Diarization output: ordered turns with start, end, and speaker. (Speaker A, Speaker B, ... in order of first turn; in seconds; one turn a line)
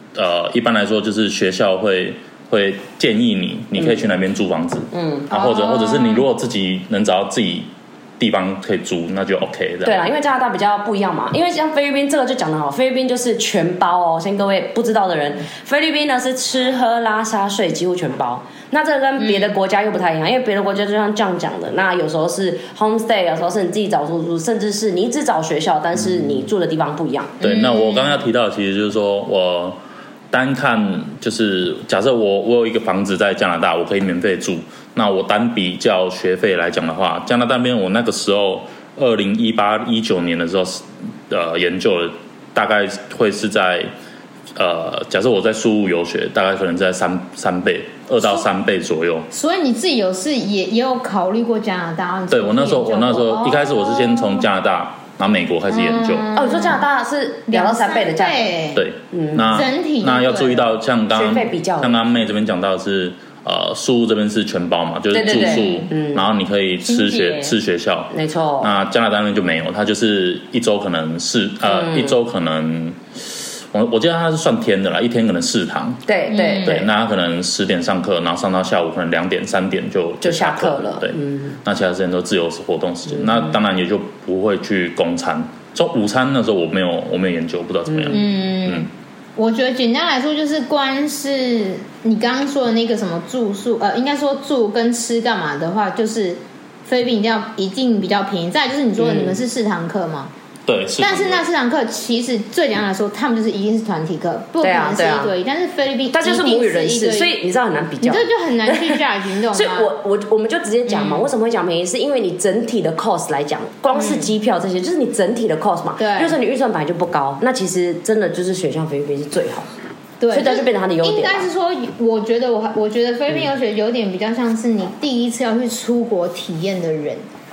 Speaker A: 0.1-7.7
Speaker B: 3.8-4.1
Speaker B: 4.9-5.3
Speaker C: 5.3-6.2
Speaker A: 8.2-10.0
Speaker B: 9.8-27.4
Speaker C: 19.2-19.5
Speaker C: 27.4-28.2
Speaker A: 27.4-29.8
Speaker A: 30.3-43.9
Speaker A: 44.6-49.3
Speaker C: 49.3-54.5
Speaker A: 52.3-56.3
Speaker C: 55.7-56.8
Speaker B: 56.3-58.5
Speaker C: 57.5-58.8
Speaker A: 58.7-76.0
Speaker B: 59.1-59.6
Speaker C: 59.5-60.7
Speaker B: 61.1-62.2
Speaker B: 65.1-66.3
Speaker C: 65.2-65.9
Speaker B: 67.0-67.5
Speaker C: 67.1-67.4
Speaker B: 68.1-68.8
Speaker B: 71.6-72.2
Speaker B: 76.1-76.9
Speaker C: 76.3-76.8
Speaker A: 76.6-88.9
Speaker B: 80.2-81.6
Speaker B: 83.2-83.5
Speaker B: 87.9-88.2
Speaker C: 88.1-100.3
Speaker B: 99.0-99.4
Speaker A: 100.7-101.4
Speaker C: 101.0-107.3
Speaker B: 104.6-105.3
Speaker B: 106.1-119.7
Speaker C: 108.0-109.9
Speaker C: 110.9-111.3
Speaker C: 113.9-114.3
Speaker C: 116.0-116.3
Speaker C: 120.2-127.2
Speaker B: 120.3-121.5